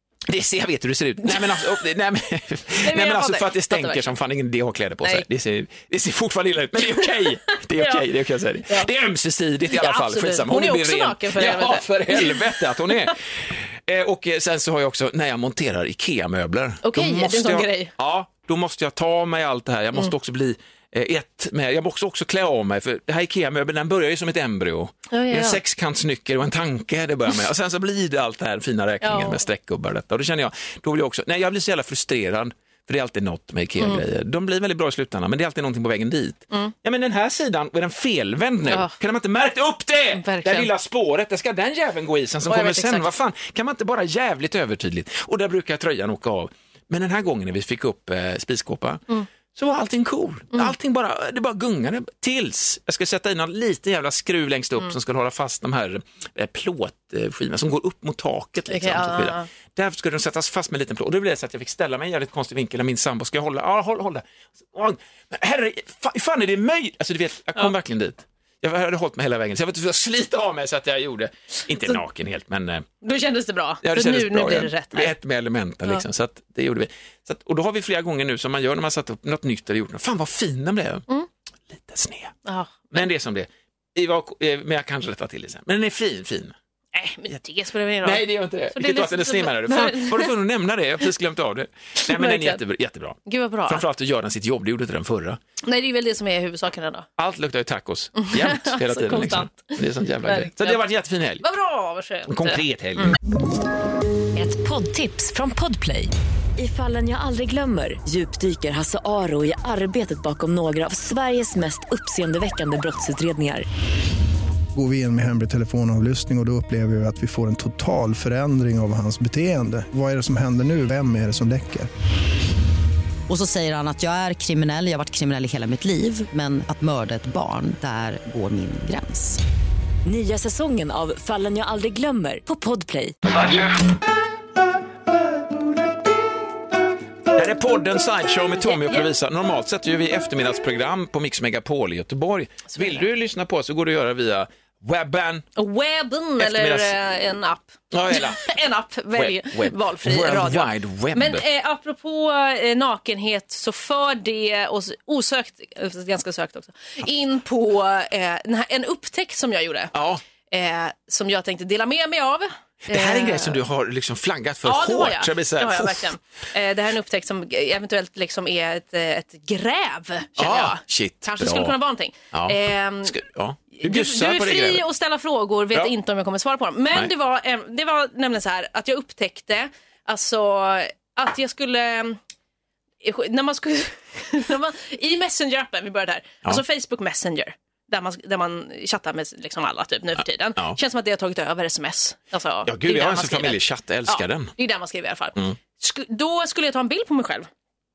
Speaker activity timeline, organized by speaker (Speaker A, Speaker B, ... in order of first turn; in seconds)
Speaker A: 0.3-49.0, 49.5-72.9, 73.8-81.0, 81.7-82.3, 82.9-86.5, 88.0-95.4, 97.2-101.4, 102.3-103.2, 137.3-145.5, 146.4-147.0, 147.9-148.5, 149.2-151.4, 159.9-160.2, 162.9-166.1, 170.4-171.8, 172.3-174.8, 192.7-194.5
Speaker B: 1.2-1.7, 2.8-4.1, 6.8-8.1, 9.7-13.1, 16.8-17.9, 25.1-25.6, 29.0-29.4, 38.7-38.9, 40.1-40.7, 42.5-43.1, 58.7-59.5, 73.0-75.1, 82.5-83.0, 86.9-90.3, 92.0-92.6, 93.3-93.8, 95.6-97.1, 98.2-100.8, 101.4-103.2, 138.7-139.1, 142.7-143.1, 145.6-159.9, 160.5-163.6, 164.7-173.2, 173.7-182.2, 183.0-197.5
Speaker C: 104.4-113.7, 130.1-133.1
Speaker D: 114.8-121.9
Speaker E: 123.3-129.4, 130.1-133.1